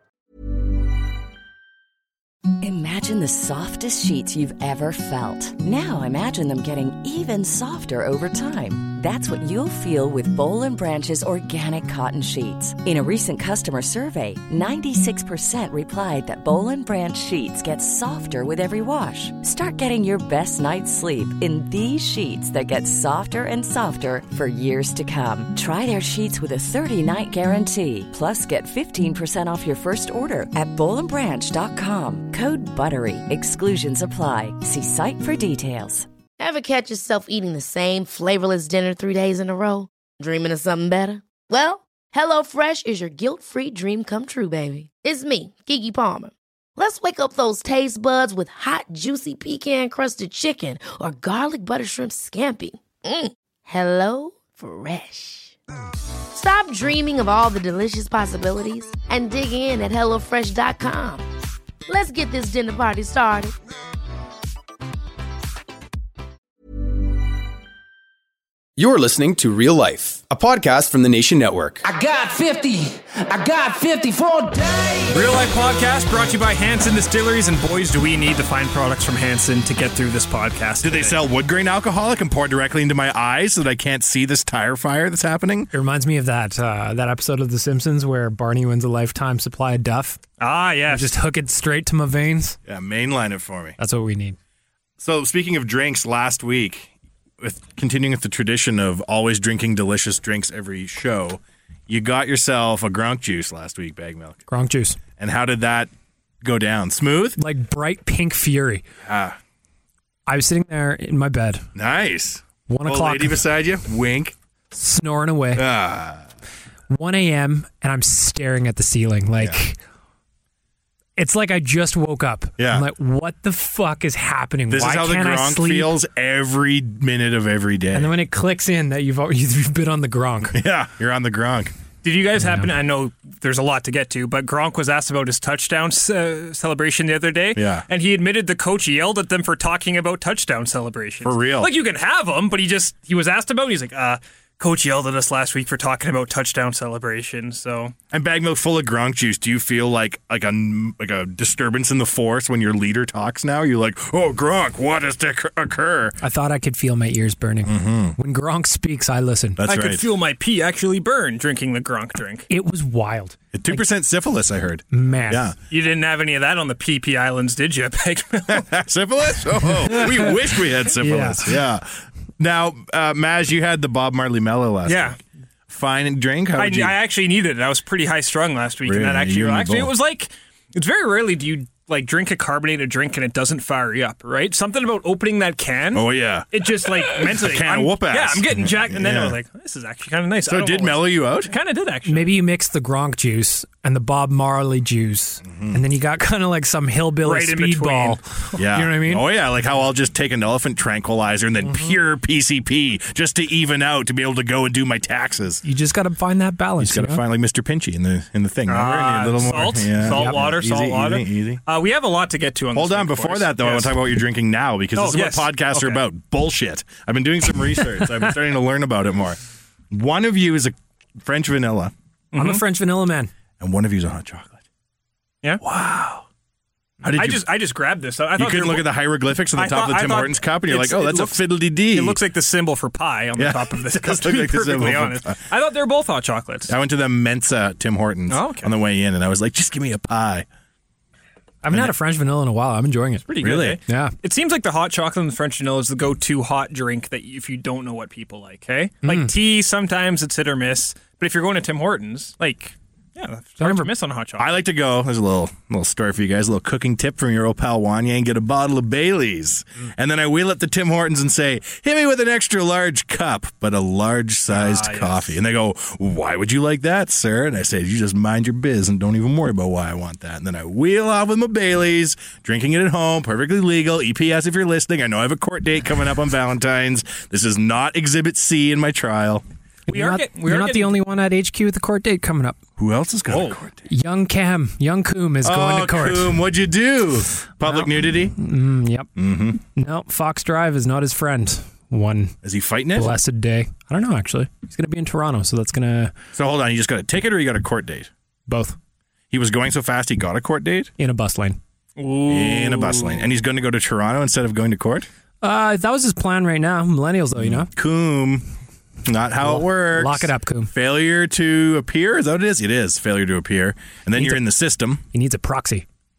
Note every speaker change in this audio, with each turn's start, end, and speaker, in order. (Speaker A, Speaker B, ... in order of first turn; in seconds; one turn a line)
Speaker A: 2.6-36.1
Speaker B: 36.4-55.5
Speaker B: 56.3-61.2
Speaker B: 61.9-63.5
Speaker C: 68.8-71.8
Speaker D: 71.9-75.0
Speaker E: 75.1-81.2
Speaker F: 80.8-85.7
Speaker G: 85.7-90.2
Speaker E: 90.4-91.1
Speaker G: 90.9-92.6
Speaker F: 92.7-93.8
Speaker G: 93.8-94.4
Speaker F: 95.0-104.4
Speaker G: 104.5-105.0
Speaker F: 105.2-105.9
Speaker F: 106.4-107.4
Speaker G: 107.4-108.8
Speaker F: 109.0-109.4
Speaker G: 110.3-111.6
Speaker F: 111.8-114.3
Speaker G: 112.7-113.4
Speaker G: 114.7-115.6
Speaker F: 115.5-116.2
Speaker G: 116.9-119.8
Speaker G: 121.2-125.9
Speaker F: 122.6-122.9
Speaker F: 124.7-128.1
Speaker G: 127.9-130.6
Speaker F: 130.5-131.7
Speaker E: 132.0-147.9
Speaker G: 132.4-132.7
Speaker F: 137.5-137.8
Speaker F: 141.2-141.7
Speaker F: 148.1-156.2
Speaker G: 156.2-159.6
Speaker F: 157.6-158.2
Speaker F: 159.6-160.1
Speaker E: 159.7-162.5
Speaker G: 162.5-163.8
Speaker F: 163.5-165.6
Speaker G: 164.9-165.5
Speaker E: 165.7-168.7
Speaker F: 168.5-171.8
Speaker G: 169.9-170.3
Speaker G: 170.9-171.5
Speaker F: 172.4-175.2
Speaker E: 174.8-175.2
Speaker F: 175.7-177.0
Speaker E: 176.6-192.3
Speaker F: 178.8-179.9
Speaker F: 185.9-189.4
Speaker F: 190.4-191.5
Speaker G: 192.1-199.3
Speaker F: 195.4-195.8
Speaker E: 197.2-198.4
Speaker F: 198.6-205.6
Speaker G: 205.6-207.2
Speaker F: 206.8-211.6
Speaker E: 208.7-214.0
Speaker F: 212.7-219.4
Speaker E: 214.9-216.0
Speaker F: 219.9-221.9
Speaker E: 222.3-222.6
Speaker G: 222.3-223.3
Speaker F: 223.6-224.6
Speaker F: 225.6-226.2
Speaker F: 227.0-227.4
Speaker E: 227.1-229.0
Speaker F: 228.3-232.2
Speaker E: 229.5-236.7
Speaker F: 233.4-235.4
Speaker F: 236.7-240.4
Speaker E: 238.3-238.7
Speaker G: 241.6-243.2
Speaker E: 243.3-254.6
Speaker F: 243.4-243.8
Speaker G: 243.9-244.1
Speaker G: 249.0-249.3
Speaker G: 253.6-253.9
Speaker F: 254.4-279.4
Speaker E: 264.5-265.3
Speaker G: 279.9-282.6
Speaker E: 279.9-281.0
Speaker F: 282.8-283.8
Speaker E: 283.3-283.6
Speaker G: 283.9-286.4
Speaker F: 285.4-288.3
Speaker G: 287.6-289.1
Speaker F: 289.1-289.6
Speaker G: 289.6-292.3
Speaker F: 292.4-293.1
Speaker G: 292.9-296.1
Speaker F: 296.3-298.1
Speaker G: 298.5-298.8
Speaker F: 299.3-300.9
Speaker G: 301.0-301.6
Speaker E: 302.0-303.3
Speaker F: 302.3-305.1
Speaker G: 305.4-307.7
Speaker F: 307.4-308.4
Speaker F: 309.0-315.0
Speaker G: 309.4-310.7
Speaker G: 314.1-314.4
Speaker G: 315.1-315.9